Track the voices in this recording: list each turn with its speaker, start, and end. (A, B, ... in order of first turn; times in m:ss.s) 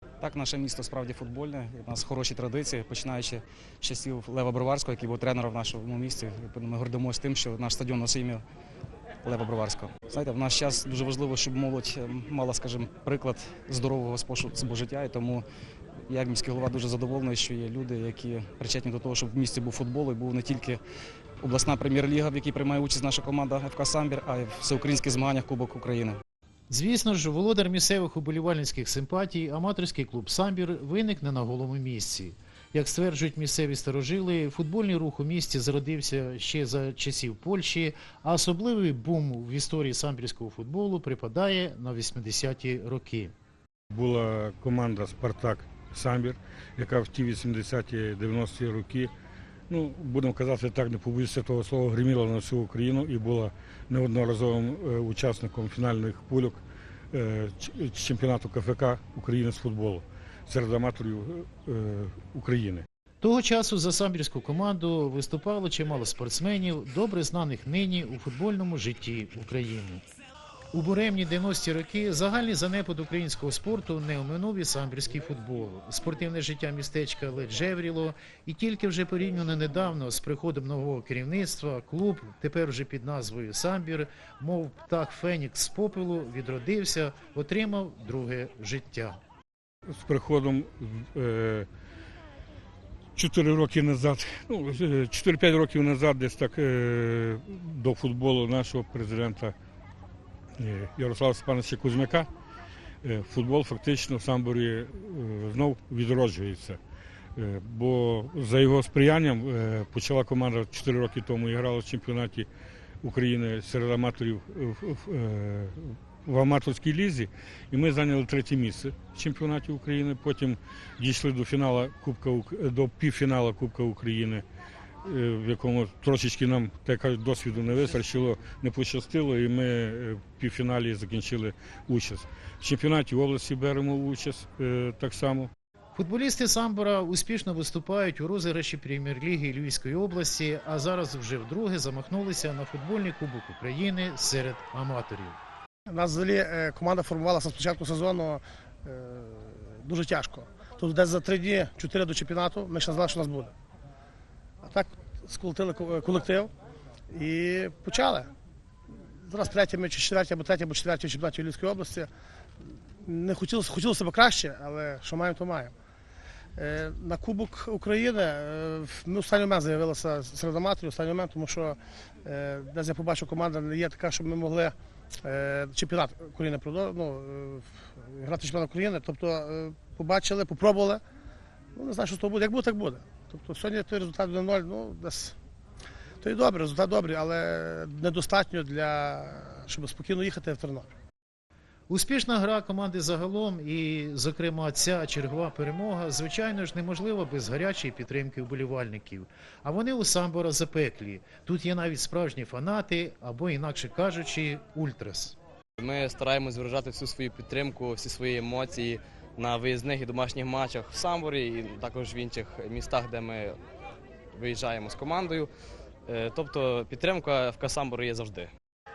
0:00.2-0:08.4 A
0:09.2-0:15.5 A
0:16.0-0:20.8 A
0:21.4-0:26.2 A
0:26.7-0:43.3 B
0:43.9-0:49.1 C
0:49.7-1:02.8 C
1:03.2-1:10.0 B
1:10.7-1:29.2 B
1:29.9-1:31.7 C
1:33.2-1:39.5 C
1:40.6-1:42.3 C
1:43.0-1:46.8 C
1:47.4-1:52.5 C
1:53.0-2:04.4 C
2:05.0-2:15.5 C
2:16.0-2:25.4 B
2:25.9-2:33.5 D
2:34.6-2:36.5 D
2:37.1-2:38.3 D
2:39.2-2:42.1 D
2:43.0-2:45.7 D
2:46.6-3:01.0 D
3:01.8-3:05.4 D
3:06.2-3:10.9 D
3:11.9-3:25.4 B
3:25.8-3:33.6 E
3:34.4-3:35.5 E
3:36.1-3:38.5 E